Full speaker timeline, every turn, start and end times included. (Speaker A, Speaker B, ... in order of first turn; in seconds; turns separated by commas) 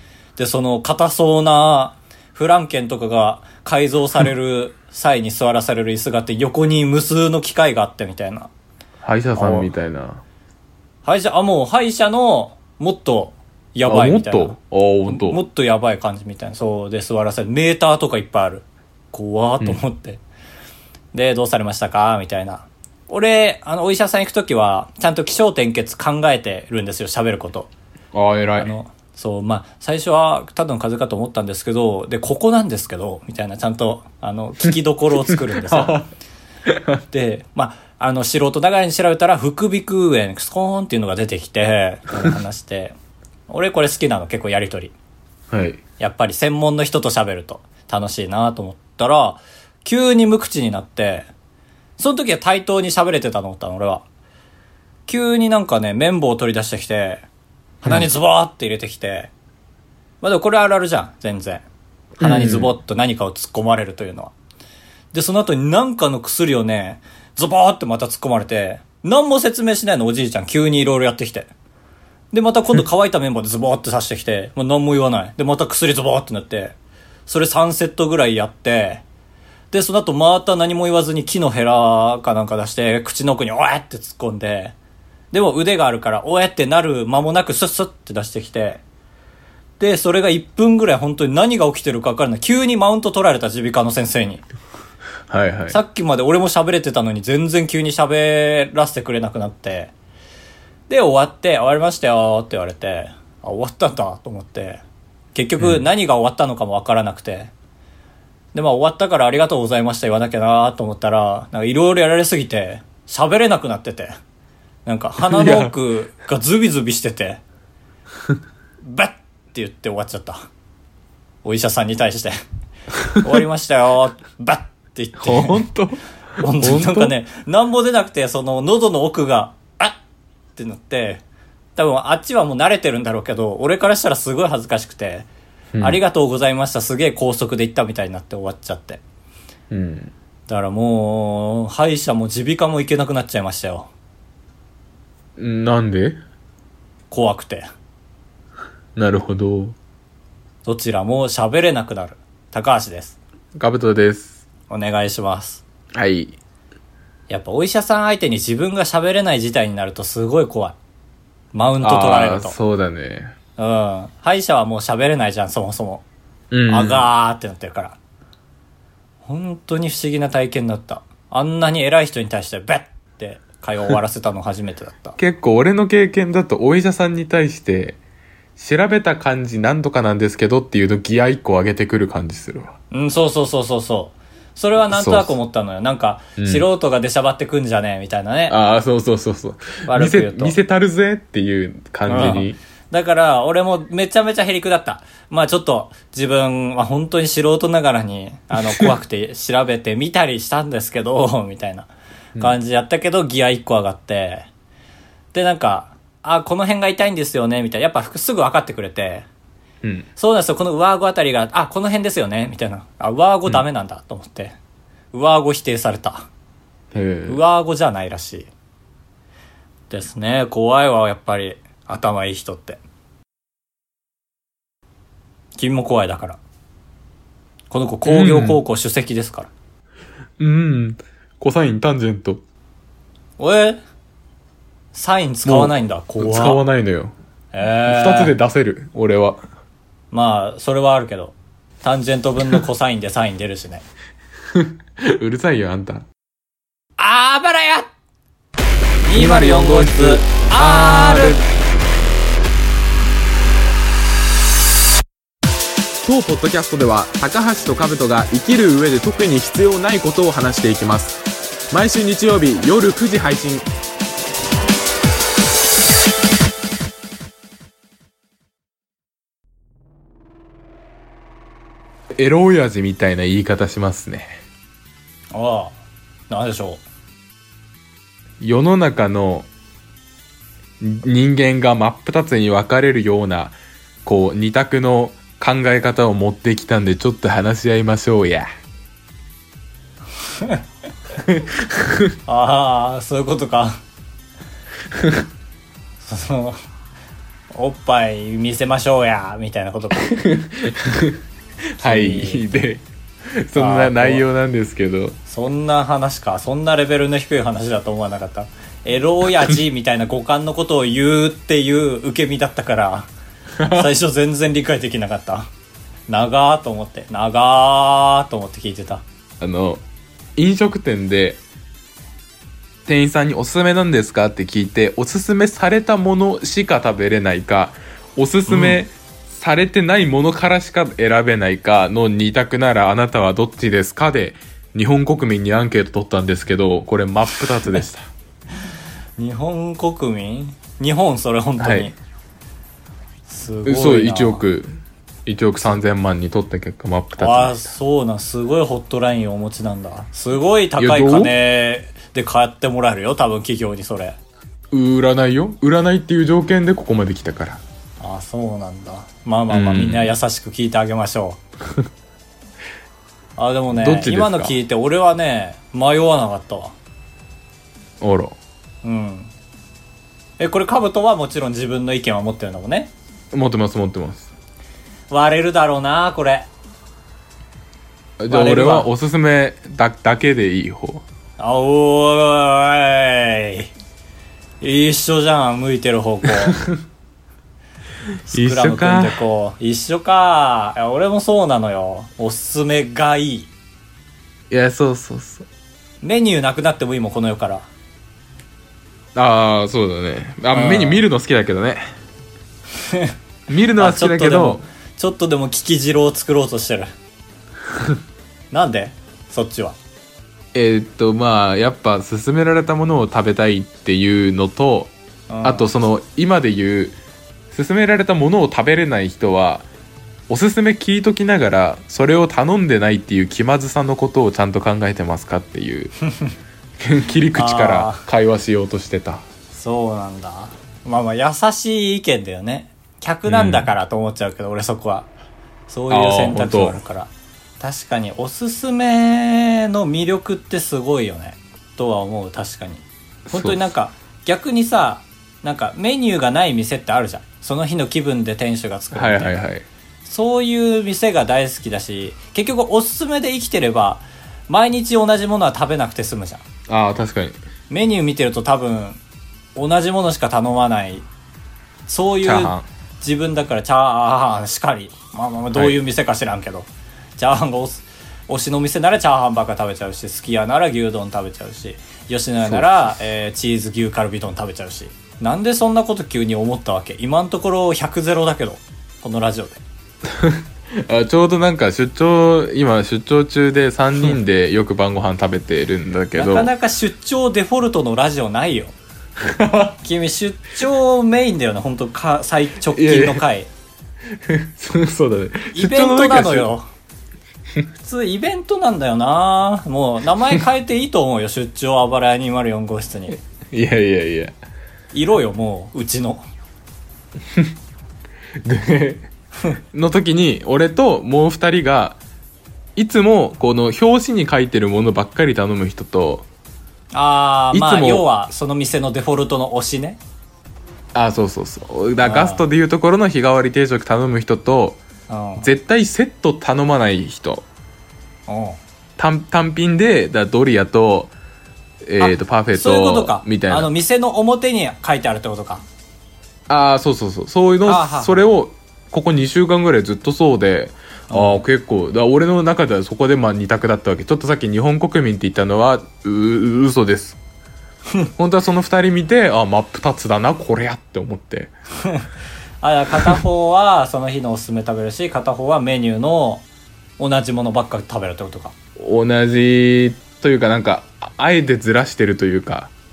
Speaker A: 0.4-8.5, Speaker B: 9.0-10.2, Speaker A: 9.4-9.7, Speaker A: 11.1-14.6, Speaker B: 13.9-15.4, Speaker A: 15.1-20.2, Speaker A: 21.1-27.7, Speaker B: 28.1-28.7, Speaker A: 28.6-36.0, Speaker B: 35.5-36.1, Speaker B: 36.7-37.0, Speaker A: 37.1-43.0, Speaker A: 43.5-44.9, Speaker B: 45.5-45.8, Speaker A: 46.0-51.3, Speaker A: 52.0-54.0, Speaker A: 55.1-57.2, Speaker A: 57.8-59.3, Speaker B: 57.9-58.1, Speaker A: 60.2-61.6, Speaker A: 62.2-64.3, Speaker B: 62.2-62.7, Speaker A: 65.1-71.5, Speaker A: 72.3-76.8, Speaker A: 77.3-79.0, Speaker A: 79.7-84.8, Speaker A: 85.3-88.8, Speaker A: 89.8-94.4, Speaker B: 95.3-95.8, Speaker A: 95.7-99.9, Speaker A: 100.9-104.8, Speaker A: 105.3-107.5, Speaker A: 108.5-114.1, Speaker A: 114.9-117.4, Speaker B: 115.2-115.7, Speaker A: 118.8-120.4, Speaker A: 121.4-122.4, Speaker B: 123.0-123.3, Speaker A: 123.2-125.7, Speaker B: 125.2-127.1, Speaker A: 126.4-130.0, Speaker A: 130.6-131.2, Speaker A: 131.8-135.3, Speaker B: 135.8-136.0, Speaker A: 135.8-139.0, Speaker B: 139.7-140.1, Speaker A: 140.5-143.9, Speaker B: 145.4-146.2, Speaker A: 147.1-147.7, Speaker B: 149.0-149.8, Speaker A: 150.7-153.2, Speaker B: 153.6-154.4, Speaker A: 154.7-155.6, Speaker B: 155.9-156.4, Speaker A: 157.3-160.8, Speaker A: 161.5-162.6, Speaker B: 161.8-163.3, Speaker A: 163.6-166.0, Speaker B: 166.5-167.1, Speaker A: 166.7-168.0, Speaker A: 169.2-175.2, Speaker B: 175.2-178.0, Speaker B: 178.6-182.7, Speaker A: 182.9-188.6, Speaker B: 184.9-185.4, Speaker B: 186.4-186.7, Speaker B: 188.5-192.6, Speaker A: 189.9-190.6, Speaker A: 192.1-204.5, Speaker A: 205.3-209.3, Speaker A: 210.2-214.6, Speaker A: 215.1-216.3, Speaker B: 216.9-217.4, Speaker A: 217.3-218.5, Speaker A: 219.9-222.8, Speaker A: 225.6-226.4, Speaker A: 227.7-229.5, Speaker B: 228.1-228.6, Speaker B: 230.4-232.4, Speaker A: 233.4-233.8, Speaker A: 234.9-236.6, Speaker B: 235.4-237.1, Speaker A: 237.5-238.3, Speaker B: 237.9-239.4, Speaker A: 240.1-243.9, Speaker B: 244.5-246.1, Speaker A: 247.0-247.9, Speaker A: 249.1-251.4, Speaker B: 249.2-251.4, Speaker B: 256.0-261.2, Speaker B: 261.7-263.7, Speaker B: 272.2-274.4, Speaker A: 275.3-275.8, Speaker A: 276.3-276.8, Speaker B: 278.4-279.5, Speaker B: 280.8-288.5, Speaker A: 290.3-290.6, Speaker B: 291.2-292.1, Speaker A: 292.3-293.8, Speaker B: 294.9-295.3, Speaker A: 296.0-296.6, Speaker A: 297.5-300.1, Speaker B: 300.0-301.2, Speaker B: 301.8-302.9, Speaker A: 301.8-302.5, Speaker B: 303.4-305.2, Speaker A: 303.6-304.2, Speaker A: 305.3-313.1, Speaker B: 313.6-313.9, Speaker A: 313.6-315.5, Speaker A: 316.1-319.0, Speaker B: 319.4-319.8, Speaker B: 320.4-321.4, Speaker B: 322.9-338.1, Speaker A: 328.5-328.8, Speaker A: 339.2-341.9, Speaker B: 341.6-341.9, Speaker A: 343.3-344.4, Speaker B: 343.7-347.7, Speaker A: 347.2-354.2, Speaker B: 350.8-351.4, Speaker B: 354.7-357.6, Speaker A: 358.0-361.4, Speaker B: 359.5-360.1, Speaker A: 363.4-366.8, Speaker B: 363.7-364.5, Speaker B: 368.0-368.4, Speaker A: 368.8-369.3, Speaker A: 370.4-372.9, Speaker B: 373.3-374.3, Speaker A: 375.1-376.5, Speaker B: 378.2-381.0, Speaker A: 378.3-378.9, Speaker A: 381.4-383.7, Speaker A: 384.6-386.6, Speaker B: 386.4-386.7, Speaker A: 388.3-393.5, Speaker B: 388.3-389.2, Speaker B: 394.5-395.5, Speaker A: 396.0-397.7, Speaker B: 399.1-401.8, Speaker A: 400.5-401.0, Speaker A: 402.8-403.1, Speaker B: 403.5-404.7, Speaker A: 403.8-406.9, Speaker A: 408.5-409.8, Speaker B: 410.5-417.0, Speaker A: 415.3-415.7, Speaker B: 417.5-419.7, Speaker B: 420.3-425.9, Speaker B: 426.8-429.2, Speaker A: 427.4-428.1, Speaker A: 429.5-435.1, Speaker B: 433.3-433.7, Speaker A: 435.7-449.4, Speaker B: 435.9-436.8, Speaker B: 443.3-443.6, Speaker B: 448.9-449.7, Speaker A: 450.1-456.4, Speaker B: 456.7-457.4, Speaker A: 457.7-459.0, Speaker A: 459.6-461.1, Speaker A: 461.9-479.6, Speaker B: 462.2-462.7, Speaker B: 465.5-465.8, Speaker B: 472.4-472.9, Speaker B: 480.1-486.5, Speaker A: 486.1-488.7, Speaker B: 489.2-489.8, Speaker A: 489.8-493.5, Speaker B: 492.7-493.2, Speaker B: 494.2-496.5, Speaker A: 495.5-496.6, Speaker A: 497.8-503.2, Speaker B: 503.4-504.4, Speaker A: 504.9-506.2, Speaker B: 508.4-509.1, Speaker B: 509.7-512.0, Speaker B: 512.8-516.3, Speaker A: 516.9-520.0, Speaker B: 517.5-518.1, Speaker B: 520.9-524.8, Speaker A: 522.0-522.5, Speaker A: 525.1-525.5, Speaker B: 525.4-527.5, Speaker A: 528.3-528.6, Speaker B: 529.0-531.1, Speaker B: 531.9-533.7, Speaker A: 532.0-535.6, Speaker B: 536.5-547.2, Speaker A: 537.6-538.3, Speaker A: 541.1-541.4, Speaker B: 548.2-551.5, Speaker A: 552.6-556.5, Speaker A: 557.0-558.5, Speaker B: 558.8-562.7